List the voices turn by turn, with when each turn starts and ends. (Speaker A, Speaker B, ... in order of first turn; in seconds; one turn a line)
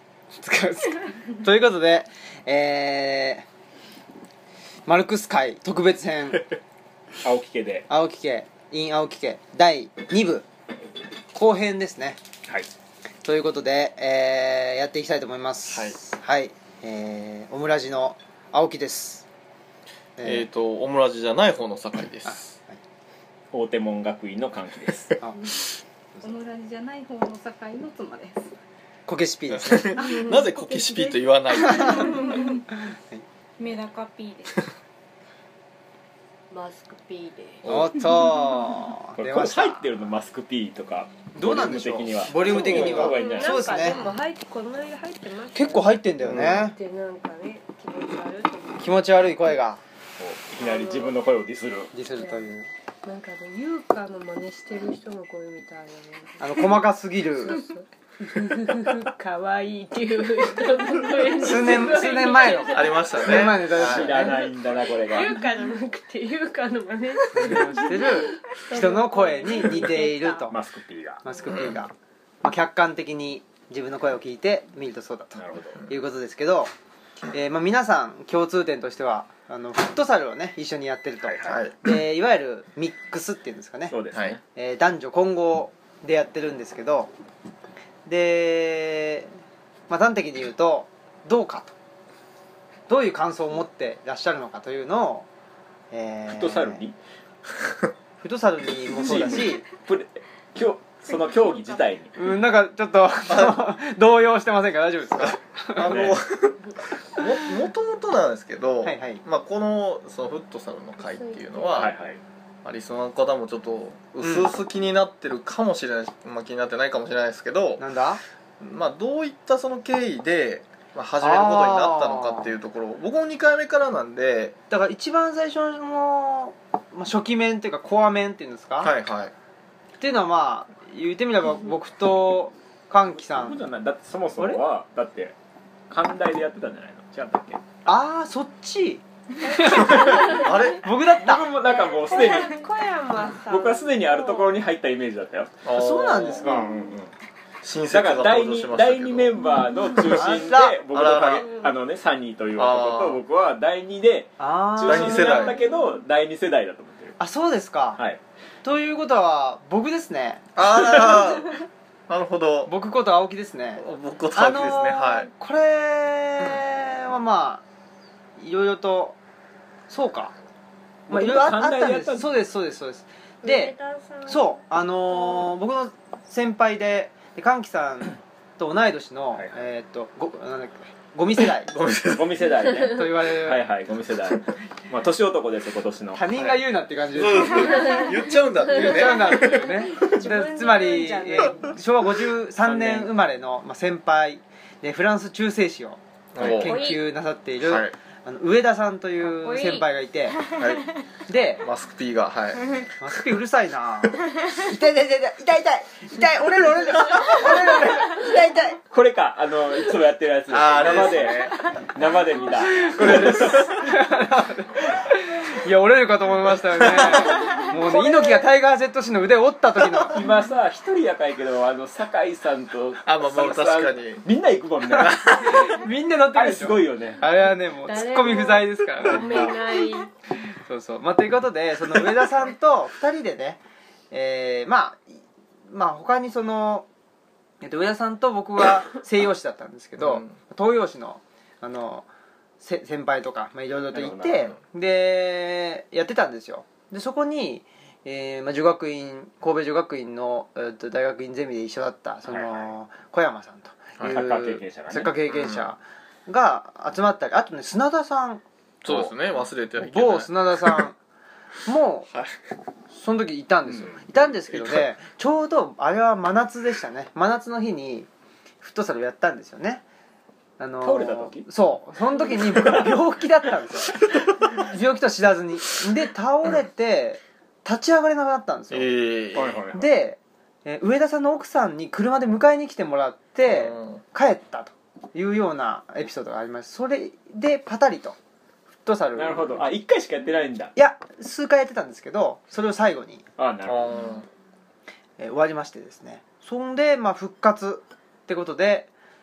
Speaker A: 0.3-3.5
Speaker A: 4.8-6.5
Speaker B: 7.2-7.9
Speaker A: 7.9-10.4
Speaker A: 11.3-12.2
Speaker A: 13.2-19.2
Speaker C: 15.7-16.0
Speaker A: 20.2-20.4
Speaker C: 20.2-22.6
Speaker A: 22.2-22.8
Speaker B: 23.5-25.2
Speaker A: 25.2-25.5
Speaker D: 26.2-28.5
Speaker A: 29.1-29.9
Speaker C: 29.5-32.3
Speaker D: 30.0-31.9
Speaker E: 31.8-32.6
Speaker A: 32.9-33.2
Speaker E: 33.6-34.7
Speaker F: 36.5-37.7
Speaker C: 37.6-38.0
Speaker A: 37.7-39.9
Speaker B: 39.2-44.1
Speaker A: 41.3-44.0
Speaker F: 42.5-49.3
Speaker A: 45.5-46.7
Speaker C: 46.2-46.6
Speaker A: 48.8-49.8
Speaker B: 50.2-51.9
Speaker F: 50.6-51.1
Speaker A: 51.9-52.7
Speaker F: 52.1-52.4
Speaker F: 53.0-56.9
Speaker A: 56.4-57.6
Speaker F: 57.4-63.5
Speaker A: 61.4-64.4
Speaker C: 62.7-64.2
Speaker B: 63.6-65.4
Speaker F: 64.3-70.5
Speaker A: 67.3-70.5
Speaker B: 70.5-71.2
Speaker A: 71.2-76.7
Speaker F: 71.3-71.6
Speaker C: 71.5-71.8
Speaker B: 75.3-75.8
Speaker A: 77.3-84.0
Speaker B: 81.2-81.5
Speaker C: 81.4-81.8
Speaker B: 83.9-84.4
Speaker C: 84.1-84.4
Speaker A: 84.5-87.1
Speaker A: 88.0-91.7
Speaker A: 92.9-95.3
Speaker A: 95.9-96.8
Speaker B: 96.3-97.0
Speaker A: 98.2-99.6
Speaker B: 99.0-102.2
Speaker A: 102.1-106.0
Speaker C: 103.3-103.6
Speaker C: 105.2-111.9
Speaker B: 105.8-106.2
Speaker A: 108.8-109.2
Speaker F: 111.0-112.0
Speaker B: 111.8-112.2
Speaker C: 112.6-117.8
Speaker A: 114.2-114.5
Speaker A: 117.8-118.2
Speaker C: 118.6-124.5
Speaker A: 121.2-122.5
Speaker A: 124.7-128.9
Speaker C: 128.8-129.3
Speaker A: 130.0-133.6
Speaker B: 133.1-135.3
Speaker A: 134.4-134.6
Speaker B: 135.9-137.6
Speaker A: 137.8-141.5
Speaker F: 139.4-140.7
Speaker C: 139.8-140.8
Speaker B: 141.1-142.6
Speaker F: 141.6-144.6
Speaker B: 143.4-145.6
Speaker C: 145.6-146.9
Speaker A: 145.7-146.7
Speaker B: 146.2-147.1
Speaker C: 147.6-149.3
Speaker B: 147.9-157.2
Speaker C: 150.0-151.5
Speaker A: 150.1-150.8
Speaker F: 151.4-151.7
Speaker C: 152.6-153.2
Speaker A: 154.4-155.4
Speaker C: 154.8-155.6
Speaker A: 157.2-158.0
Speaker A: 158.6-160.4
Speaker C: 160.6-161.5
Speaker C: 162.1-162.7
Speaker A: 162.7-163.8
Speaker C: 163.8-165.3
Speaker A: 164.3-167.6
Speaker A: 168.4-169.2
Speaker A: 169.9-170.3
Speaker B: 171.1-172.3
Speaker A: 171.1-173.7
Speaker F: 173.4-174.6
Speaker A: 174.3-181.7
Speaker C: 181.7-182.5
Speaker B: 182.0-186.6
Speaker A: 182.9-183.6
Speaker A: 186.1-188.1
Speaker C: 187.1-189.7
Speaker F: 187.6-188.2
Speaker A: 188.7-200.4
Speaker F: 190.0-191.8
Speaker B: 192.6-193.1
Speaker C: 196.3-196.8
Speaker F: 196.6-197.0
Speaker C: 197.6-197.9
Speaker F: 199.4-199.8
Speaker C: 200.5-200.8
Speaker A: 201.3-201.6
Speaker C: 201.6-202.7
Speaker A: 203.0-208.8
Speaker C: 206.8-207.4
Speaker B: 208.9-213.8
Speaker C: 210.5-211.6
Speaker A: 212.8-220.2
Speaker C: 212.9-213.8
Speaker C: 216.7-217.1
Speaker F: 217.5-218.4
Speaker B: 220.0-225.7
Speaker C: 223.0-224.2
Speaker A: 224.9-229.7
Speaker C: 225.0-225.5
Speaker B: 226.3-227.2
Speaker F: 227.8-230.1
Speaker A: 230.6-233.6
Speaker A: 234.1-236.8
Speaker A: 237.6-242.1
Speaker C: 240.0-240.3
Speaker A: 242.6-258.4
Speaker B: 243.9-244.5
Speaker B: 252.3-252.7
Speaker B: 254.1-255.2
Speaker C: 255.3-255.7
Speaker C: 258.8-260.8
Speaker A: 259.8-261.0
Speaker A: 261.6-262.1
Speaker A: 262.9-268.1
Speaker B: 263.7-264.0
Speaker C: 264.5-264.9
Speaker A: 268.6-269.8
Speaker A: 270.6-278.9
Speaker B: 270.8-271.5
Speaker B: 272.2-273.0
Speaker C: 278.7-279.6
Speaker B: 279.3-279.9
Speaker A: 279.7-288.1
Speaker C: 283.5-284.0
Speaker A: 288.8-289.6
Speaker B: 289.1-290.7
Speaker A: 290.7-293.2
Speaker B: 293.4-294.1
Speaker C: 293.6-294.2
Speaker A: 295.2-298.9